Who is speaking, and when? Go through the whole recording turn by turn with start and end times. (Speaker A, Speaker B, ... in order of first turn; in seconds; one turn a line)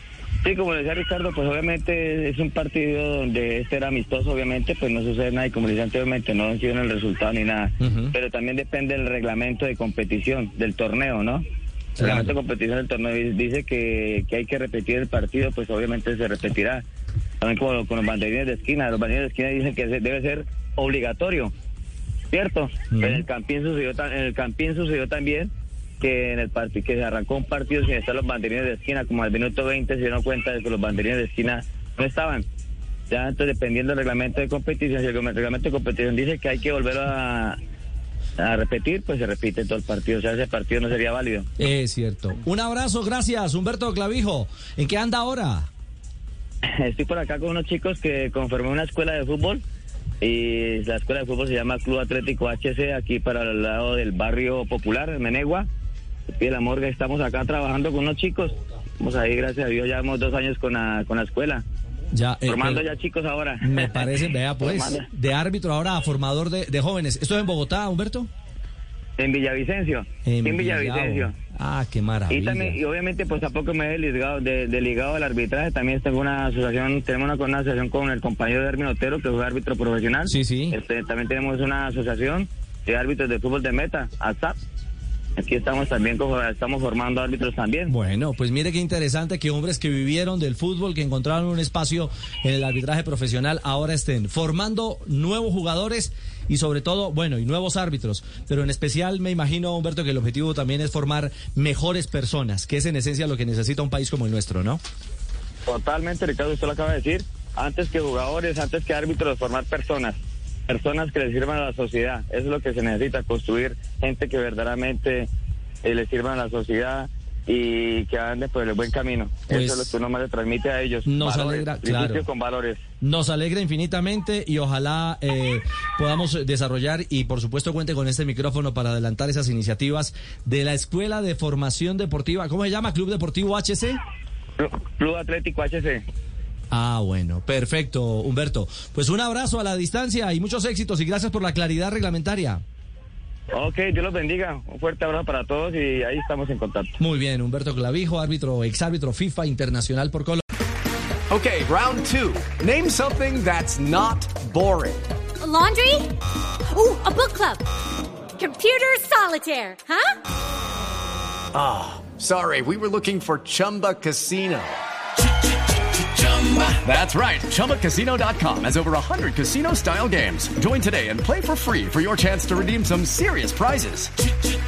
Speaker A: 0.4-11.4
Speaker B: 7.8-8.1
Speaker B: 12.0-12.3
Speaker A: 12.0-16.8
Speaker A: 17.4-21.5
Speaker A: 22.3-32.4
Speaker B: 22.9-23.2
Speaker A: 33.1-37.6
Speaker A: 38.4-41.5
Speaker B: 41.6-45.7
Speaker A: 46.8-49.6
Speaker A: 50.2-55.7
Speaker A: 56.4-61.6
Speaker B: 62.1-62.8
Speaker A: 62.5-65.1
Speaker B: 63.6-68.3
Speaker A: 69.2-71.3
Speaker B: 70.2-72.8
Speaker A: 72.3-84.6
Speaker B: 80.2-80.8
Speaker A: 85.4-87.9
Speaker B: 87.9-104.8
Speaker A: 105.7-115.3
Speaker A: 115.8-122.8
Speaker B: 119.5-119.9
Speaker B: 121.0-122.2
Speaker B: 123.0-134.0
Speaker A: 134.6-136.0
Speaker B: 136.7-142.6
Speaker A: 143.5-147.0
Speaker B: 147.0-150.4
Speaker C: 151.3-155.0
Speaker D: 155.4-156.1
Speaker D: 156.7-157.6
Speaker D: 158.4-160.1
Speaker C: 161.5-164.8
Speaker C: 166.4-174.1